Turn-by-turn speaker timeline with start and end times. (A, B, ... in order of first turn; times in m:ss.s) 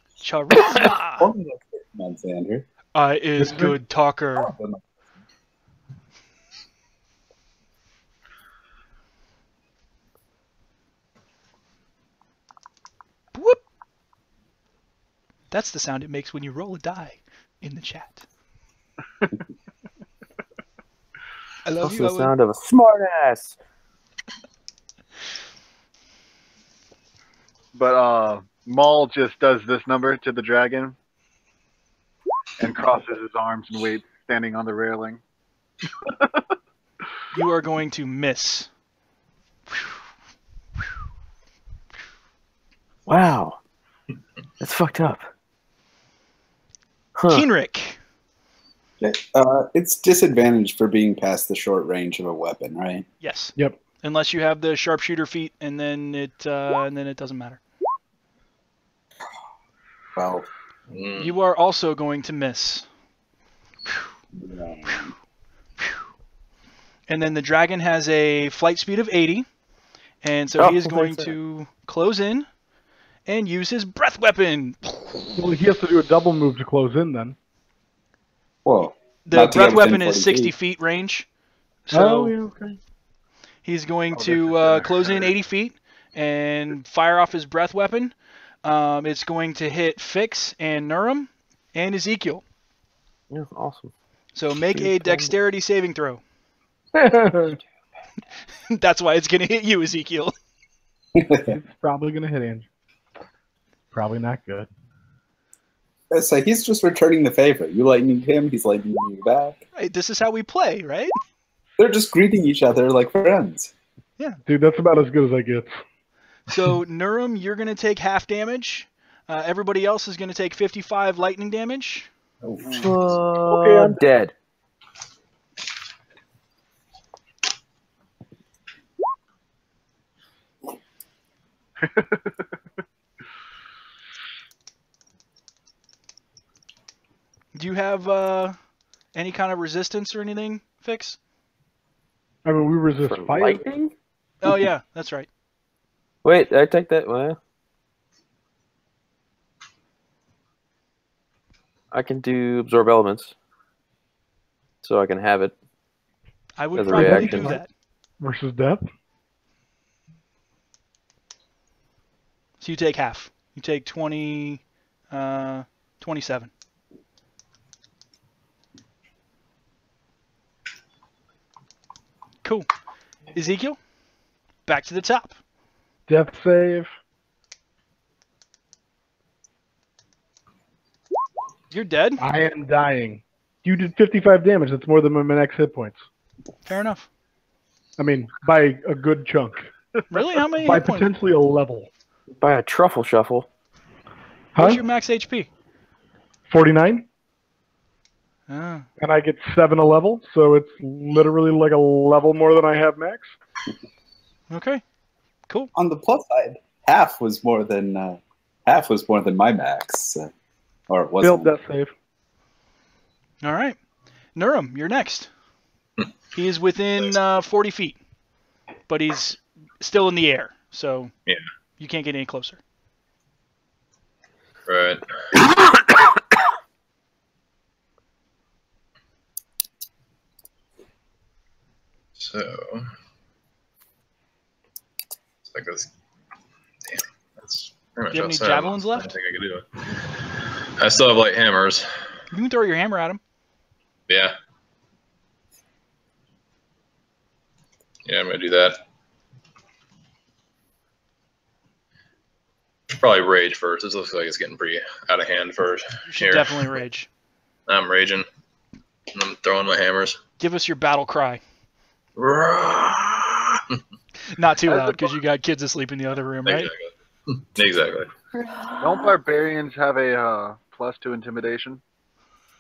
0:00.2-0:01.3 A
0:00.5-0:02.7 B
0:03.0-0:04.5 A
0:04.4-0:04.8 B
0:13.3-0:13.6 A
0:15.5-0:18.2 A
0:21.6-0:22.3 A
0:21.8-0:23.6 C
0:27.8-0:31.0 D
0:32.6-0:35.2 D
0:37.3-0:38.7 A
0:43.1-0:43.6 C
0:44.6-0:45.3 C
0:47.2-0:47.5 C
0:47.3-0:48.0 A
0:49.0-0:53.1 B
0:53.2-0:57.6 A
1:00.2-1:00.5 B
1:00.9-1:01.3 E
1:01.2-1:02.9 A
1:04.4-1:05.1 B
1:07.1-1:09.5 A
1:10.2-1:12.5 A
1:10.6-1:11.3 C
1:13.3-1:15.0 A
1:15.3-1:17.4 F
1:18.6-1:20.5 B
1:19.2-1:21.3 A
1:21.9-1:22.4 A
1:21.9-1:22.8 F
1:23.6-1:32.4 A
1:24.1-1:25.3 D
1:33.3-1:33.9 C
1:34.4-1:36.2 A
1:34.7-1:35.4 C
1:36.9-1:37.6 F
1:38.7-1:40.3 A
1:41.2-1:41.5 B
1:41.4-1:42.7 F
1:43.9-1:44.7 F
1:46.1-1:49.6 B
1:49.8-1:51.1 A
1:51.8-1:53.7 B
1:54.5-1:55.8 F
1:56.5-2:02.1 A
2:02.6-2:04.3 C
2:03.5-2:04.0 F
2:11.8-2:12.2 D
2:17.6-2:18.6 A
2:19.2-2:21.2 A
2:22.4-2:23.7 F
2:23.0-2:23.9 C
2:24.4-2:25.3 A
2:26.2-2:27.4 C
2:31.9-2:33.4 C
2:34.8-2:35.5 C
2:36.6-2:37.7 A
2:36.7-2:37.6 C
2:36.9-2:37.6 F
2:38.2-2:38.9 F
2:42.6-2:46.5 A
2:53.3-2:53.8 A
2:54.7-2:55.4 A
2:56.1-2:56.9 F
3:01.7-3:02.2 A
3:02.2-3:06.0 F
3:06.7-3:07.1 A
3:08.0-3:09.7 F
3:10.1-3:11.1 A
3:10.6-3:11.9 F
3:12.4-3:13.5 C
3:14.6-3:14.8 F
3:14.6-3:15.5 A
3:16.5-3:17.1 F
3:18.5-3:18.9 A
3:19.0-3:23.3 F
3:24.5-3:24.8 A
3:25.8-3:30.3 B
3:30.9-3:31.5 B
3:31.2-3:31.9 F
3:33.4-3:33.8 A
3:34.4-3:35.3 A
3:36.3-3:38.0 A
3:38.9-3:41.1 A
3:41.8-3:42.6 A
3:44.7-3:45.4 E
3:52.2-3:52.9 E
3:55.5-3:55.9 E
3:56.9-4:00.2 E
3:58.1-3:59.1 A
4:00.8-4:01.9 E
4:02.3-4:03.2 A
4:04.1-4:04.3 E
4:08.1-4:08.8 E
4:13.0-4:16.8 E
4:16.1-4:17.1 A
4:17.7-4:18.3 E
4:19.1-4:20.2 E
4:20.4-4:21.4 A
4:22.2-4:23.8 E
4:24.4-4:26.7 A
4:24.7-4:25.1 D
4:26.5-4:28.1 E
4:28.4-4:29.1 C
4:28.8-4:31.8 D